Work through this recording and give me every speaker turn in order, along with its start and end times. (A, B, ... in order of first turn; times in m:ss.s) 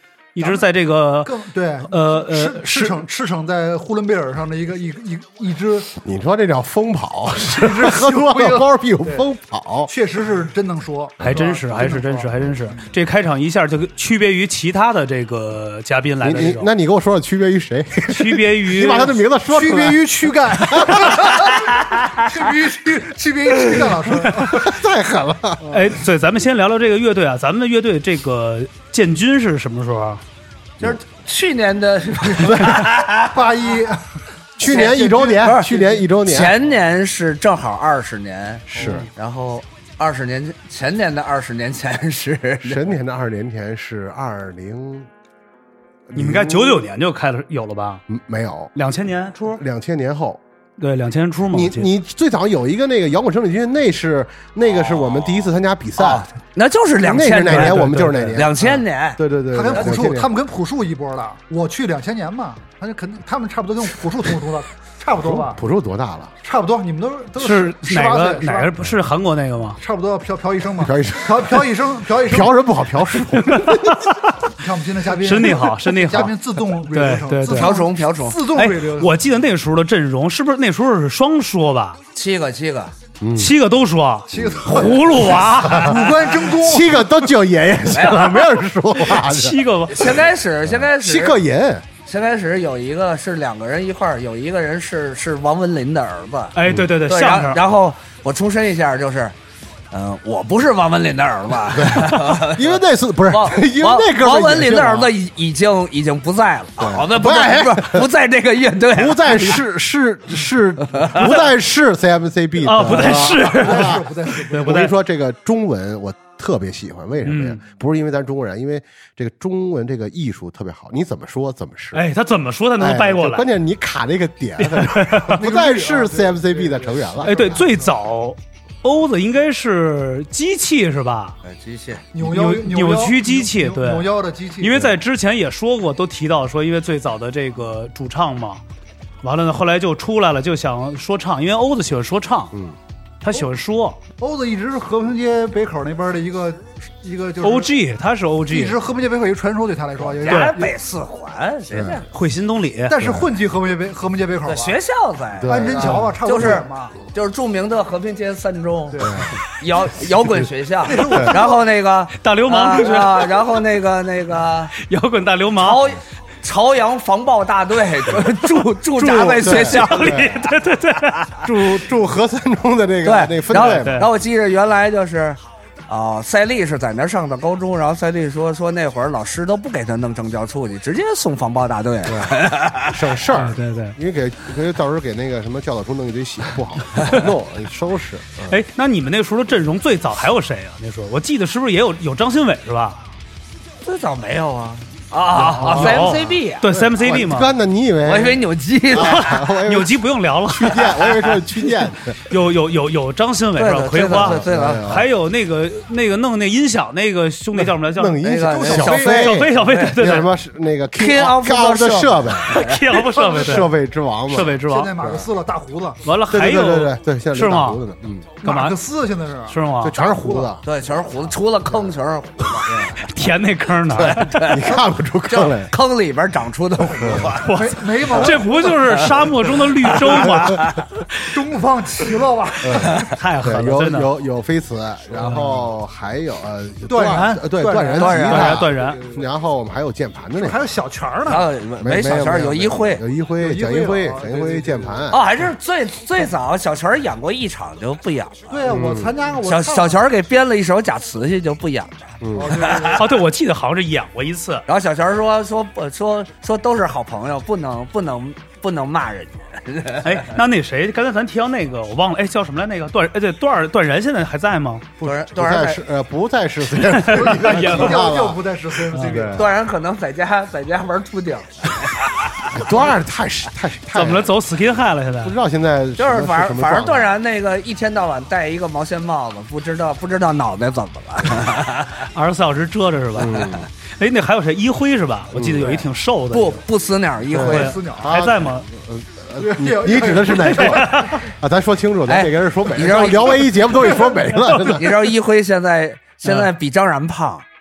0:00.3-0:01.3 A
0:01.2-0:05.9 B
0:01.9-0:03.0 A
0:06.0-0:09.9 C
0:07.4-0:09.2 B
0:09.9-0:12.8 B
0:11.2-0:16.7 A
0:16.2-0:21.4 C
0:18.1-0:19.2 A
0:19.5-0:24.6 B
0:24.4-0:25.6 C
0:25.7-0:30.2 A
0:30.8-0:33.4 D
0:32.4-0:32.8 C
0:33.3-0:34.1 B
0:34.6-0:36.6 C
0:34.6-0:36.0 B
0:35.4-0:35.7 D
0:36.2-0:43.0 D
0:38.7-0:39.1 C
0:38.8-0:39.0 B
0:42.6-0:45.1 C
0:46.1-0:46.8 C
0:46.1-0:48.0 A
0:48.1-0:48.7 C
0:48.7-0:49.6 A
0:49.5-0:50.4 C
0:50.8-0:51.9 A
0:51.5-0:56.3 C
0:54.7-1:00.0 D
0:57.0-1:00.3 C
0:57.4-0:58.4 A
0:59.5-1:05.6 B
1:05.2-1:06.3 C
1:06.4-1:08.7 B
1:07.4-1:09.8 A
1:09.8-1:12.5 B
1:10.8-1:11.7 C
1:12.2-1:14.0 C
1:13.4-1:14.4 A
1:14.6-1:19.1 B
1:15.1-1:16.3 A
1:16.9-1:17.8 A
1:17.4-1:18.4 D
1:18.5-1:22.0 A
1:22.1-1:23.0 D
1:23.2-1:23.5 C
1:23.4-1:26.3 A
1:24.3-1:25.9 C
1:24.3-1:27.1 B
1:26.6-1:29.6 C
1:27.9-1:28.4 D
1:29.0-1:30.2 A
1:29.9-1:31.4 D
1:30.7-1:31.8 C
1:32.0-1:39.4 D
1:36.5-1:37.6 A
1:39.9-1:49.6 D
1:41.7-1:45.1 C
1:46.8-1:48.1 C
1:48.9-2:02.0 C
1:50.8-1:51.4 D
1:52.6-1:54.9 A
1:53.0-1:54.8 B
1:57.2-1:57.6 A
2:01.9-2:03.5 A
2:02.8-2:07.6 C
2:04.6-2:05.4 A
2:05.4-2:07.9 B
2:07.2-2:11.4 A
2:11.4-2:12.0 D
2:12.1-2:14.8 B
2:12.2-2:18.6 A
2:19.2-2:22.5 A
2:23.2-2:24.0 A
2:24.2-2:27.7 B
2:27.4-2:28.8 A
2:28.5-2:30.7 B
2:30.0-2:32.1 D
2:30.3-2:30.6 A
2:31.7-2:32.0 C
2:32.1-2:33.0 A
2:32.9-2:34.8 B
2:33.0-2:33.3 C
2:34.4-2:44.7 D
2:35.4-2:36.1 C
2:35.4-2:37.0 B
2:38.9-2:39.2 B
2:39.0-2:39.4 C
2:40.8-2:41.6 B
2:42.2-2:43.4 A
2:44.8-2:45.8 A
2:45.6-2:50.3 D
2:49.0-2:50.4 C
2:49.0-2:51.5 A
2:51.4-2:54.1 C
2:53.0-3:03.0 D
2:53.5-2:54.1 A
3:02.1-3:08.6 C
3:03.3-3:03.9 A
3:08.5-3:13.0 A
3:13.8-3:16.6 D
3:15.3-3:18.4 C
3:15.4-3:17.5 A
3:18.0-3:19.4 D
3:18.9-3:22.2 C
3:19.0-3:21.4 A
3:22.3-3:28.2 A
3:23.6-3:25.0 D
3:24.1-3:25.1 C
3:27.6-3:32.6 C
3:28.2-3:30.0 D
3:28.5-3:29.3 B
3:28.9-3:30.3 A
3:31.0-3:32.8 D
3:32.5-3:33.7 A
3:33.1-3:33.6 B
3:33.2-3:35.3 C
3:34.3-3:34.9 A
3:34.6-3:36.0 B
3:36.0-3:37.8 A
3:36.3-3:38.3 C
3:38.4-3:40.5 B
3:38.4-3:38.8 A
3:39.5-3:39.9 A
3:39.8-3:41.2 C
3:40.6-3:42.9 D
3:42.7-3:42.9 C
3:43.0-3:44.6 A
3:43.9-3:45.7 C
3:44.3-3:44.7 D
3:45.3-3:47.5 D
3:46.9-3:47.3 C
3:47.4-3:51.4 A
3:47.5-3:48.8 B
3:49.8-3:50.8 D
3:51.3-3:53.0 B
3:52.6-3:54.1 A
3:52.6-4:00.6 C
3:55.2-3:55.6 A
3:56.9-3:59.2 B
3:57.9-3:58.6 D
3:58.3-3:59.0 A
4:00.4-4:01.4 B
4:01.2-4:03.0 D
4:01.8-4:05.2 C
4:03.4-4:05.1 B
4:05.1-4:08.7 D
4:08.5-4:10.0 B
4:08.7-4:09.2 C
4:09.4-4:13.0 D
4:12.2-4:12.7 C
4:12.3-4:13.1 B
4:13.0-4:14.6 A
4:14.7-4:20.2 D
4:20.0-4:24.9 A
4:25.0-4:25.8 D
4:25.0-4:28.4 C
4:26.8-4:28.1 A
4:27.1-4:29.5 B
4:28.9-4:29.2 A
4:29.0-4:29.5 C
4:29.3-4:32.8 D
4:32.5-4:34.4 C
4:33.9-4:35.4 A
4:35.2-4:37.1 C
4:36.0-4:42.1 D
4:42.1-4:46.6 A
4:43.2-4:43.7 C
4:45.3-4:45.8 C
4:46.3-4:47.7 D
4:47.3-4:54.9 C
4:47.4-4:48.1 B
4:47.4-4:48.6 A
4:49.4-4:51.2 B
4:50.4-4:51.2 A
4:52.1-4:53.6 D
4:52.9-4:54.4 B
4:54.6-4:57.4 D
4:56.2-4:56.5 A